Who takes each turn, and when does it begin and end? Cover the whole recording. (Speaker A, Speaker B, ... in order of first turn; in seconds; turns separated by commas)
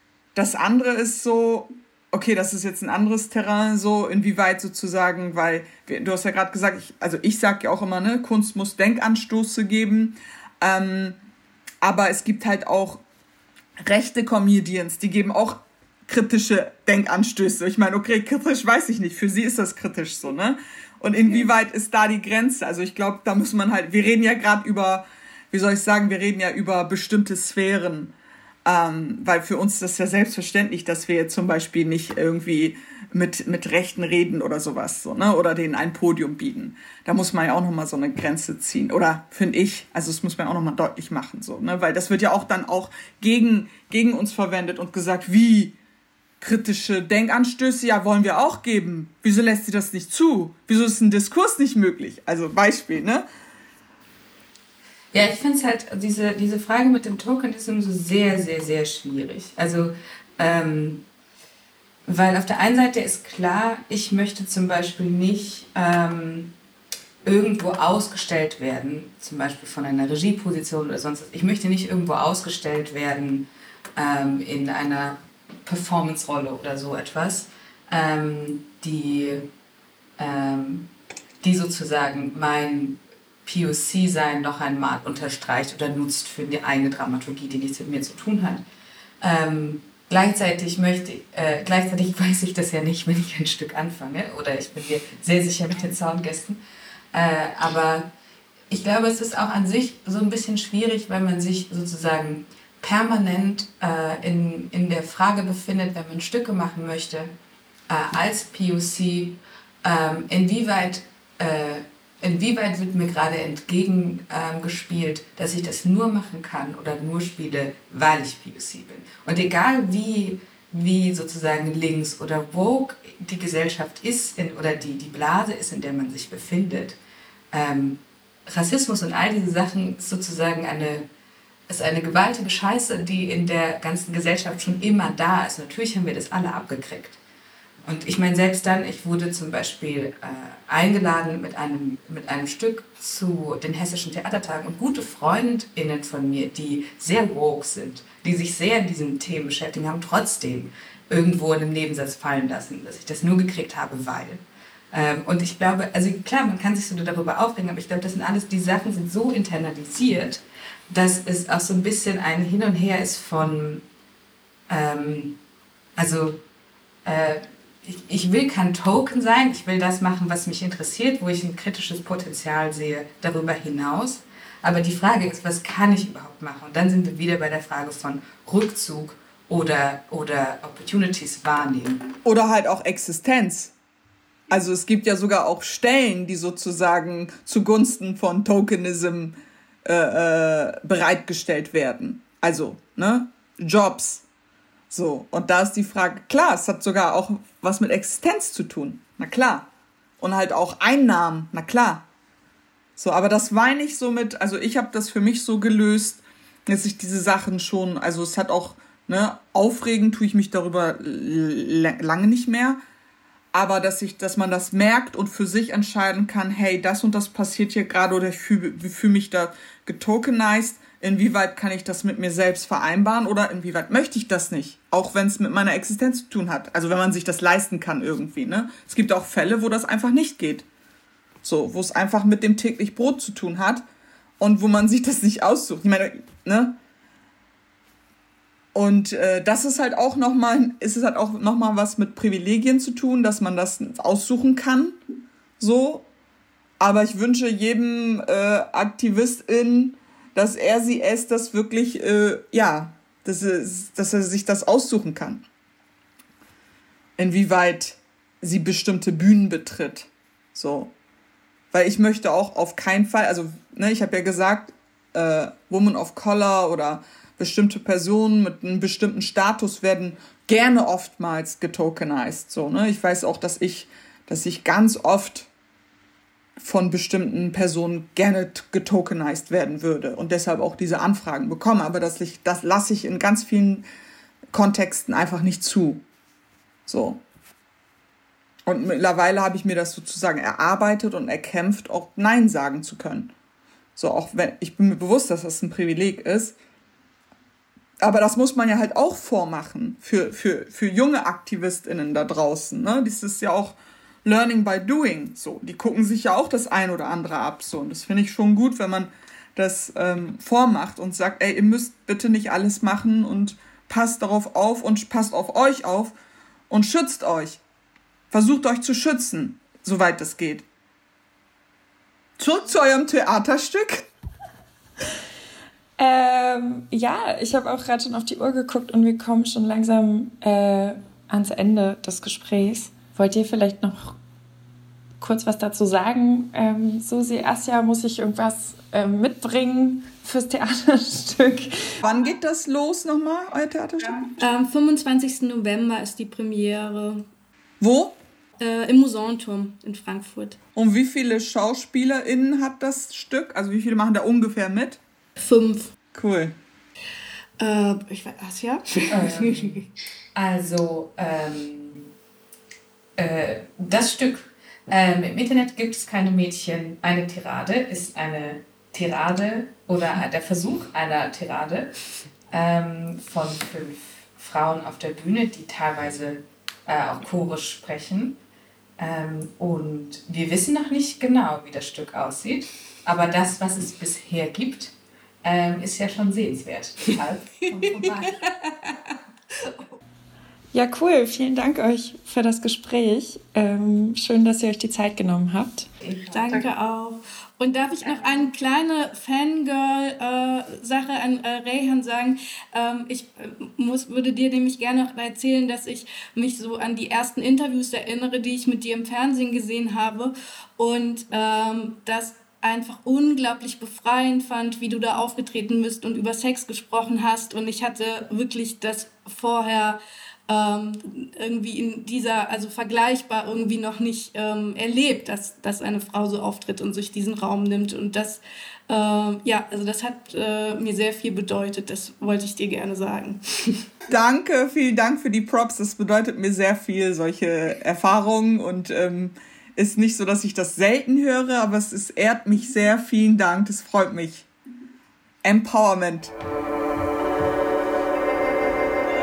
Speaker A: 0.3-11.2, Speaker A: 11.8-13.0, Speaker A: 13.8-28.1, Speaker A: 28.6-45.7, Speaker A: 46.4-53.2, Speaker B: 55.1-61.0, Speaker B: 62.1-66.5, Speaker B: 67.2-79.5, Speaker B: 80.2-80.9, Speaker B: 81.4-88.6, Speaker B: 89.2-96.6, Speaker B: 97.1-98.1, Speaker B: 98.7-107.3, Speaker B: 107.9-127.0, Speaker B: 127.5-131.1, Speaker B: 131.7-137.2, Speaker B: 137.9-163.8, Speaker B: 164.7-165.4, Speaker B: 166.0-166.4, Speaker B: 167.1-182.1, Speaker A: 182.2-183.7, Speaker A: 184.5-189.3, Speaker A: 189.8-194.2, Speaker A: 194.9-199.7, Speaker A: 200.2-202.0, Speaker A: 203.0-212.8, Speaker A: 213.5-230.7, Speaker A: 231.4-233.8, Speaker A: 234.4-236.7, Speaker A: 238.7-245.0, Speaker A: 245.6-246.1, Speaker A: 246.8-255.4, Speaker A: 257.2-260.9, Speaker A: 261.7-275.5, Speaker A: 276.6-283.8, Speaker A: 284.5-286.0, Speaker A: 286.9-287.2, Speaker A: 288.7-293.3, Speaker A: 294.0-296.6, Speaker A: 298.0-316.1, Speaker A: 316.7-317.6, Speaker A: 318.3-320.6, Speaker A: 322.4-324.1, Speaker C: 326.0-334.2, Speaker C: 335.2-341.9, Speaker A: 342.0-344.3, Speaker D: 344.4-347.2, Speaker A: 347.8-348.1, Speaker D: 348.6-350.6, Speaker A: 350.8-355.0, Speaker D: 355.4-355.9, Speaker A: 356.1-356.6, Speaker D: 357.6-359.9, Speaker B: 359.1-362.1, Speaker B: 363.2-371.9, Speaker B: 372.5-378.4, Speaker B: 379.0-388.4, Speaker D: 387.9-389.1, Speaker C: 390.7-395.9, Speaker B: 396.0-396.7, Speaker D: 396.3-433.9, Speaker A: 434.1-444.5, Speaker A: 445.4-446.3